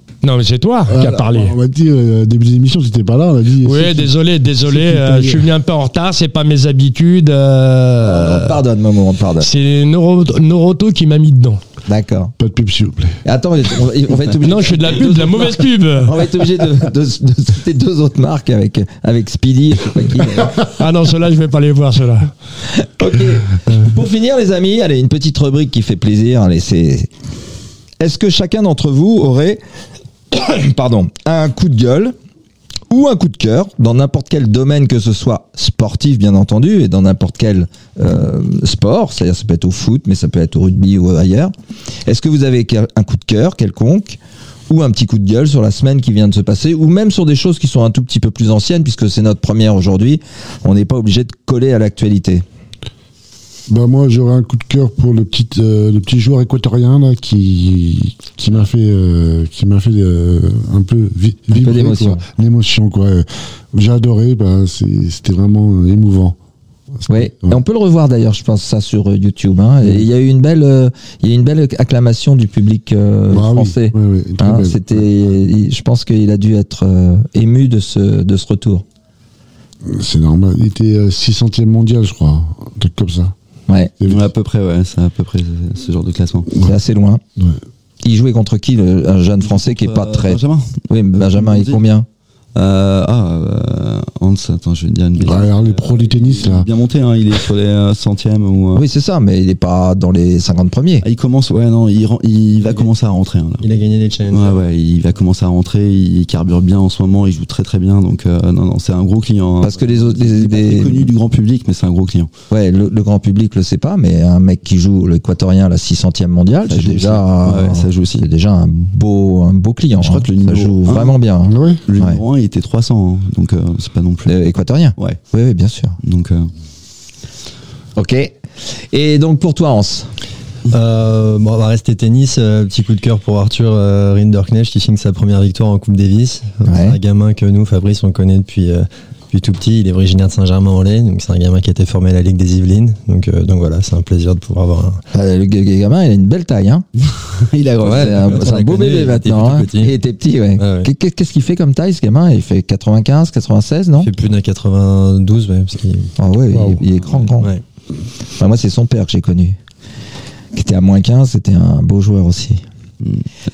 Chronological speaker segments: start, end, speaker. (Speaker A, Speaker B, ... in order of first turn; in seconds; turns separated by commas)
Speaker A: 0.2-1.5, Speaker B: 0.9-5.5, Speaker A: 3.6-8.6, Speaker C: 8.0-9.5, Speaker A: 9.4-11.6, Speaker C: 11.9-12.3, Speaker B: 12.4-13.2, Speaker C: 13.2-20.7, Speaker A: 14.4-16.1, Speaker A: 20.5-22.3, Speaker C: 22.7-27.1, Speaker C: 28.0-29.6, Speaker C: 30.3-32.1, Speaker C: 32.9-41.5, Speaker C: 42.0-44.2, Speaker C: 44.7-52.4, Speaker B: 53.7-66.3, Speaker C: 61.5-62.2, Speaker B: 67.0-67.6, Speaker C: 67.1-78.8, Speaker B: 73.3-75.4, Speaker B: 79.8-83.3, Speaker B: 84.0-84.3, Speaker D: 84.1-86.5, Speaker B: 86.5-86.8, Speaker C: 86.6-87.2, Speaker C: 88.0-92.0, Speaker D: 89.4-91.8, Speaker D: 92.5-98.8, Speaker B: 95.2-96.7, Speaker C: 98.7-101.0, Speaker D: 101.0-103.6, Speaker E: 103.6-104.6, Speaker D: 104.3-112.3, Speaker C: 109.6-111.1, Speaker C: 112.5-122.2, Speaker D: 116.7-118.2, Speaker D: 119.9-121.2, Speaker B: 121.4-121.8, Speaker D: 121.8-124.4, Speaker C: 124.3-126.0, Speaker D: 126.0-126.5, Speaker C: 128.0-130.1, Speaker E: 130.7-145.0, Speaker C: 136.6-137.0, Speaker C: 145.1-146.8, Speaker D: 147.2-149.7, Speaker C: 147.8-154.1, Speaker E: 147.8-149.9, Speaker E: 150.6-150.9, Speaker E: 154.0-156.8, Speaker C: 156.2-157.5, Speaker E: 157.3-157.6, Speaker C: 158.4-159.6, Speaker C: 160.5-162.6, Speaker D: 163.0-163.3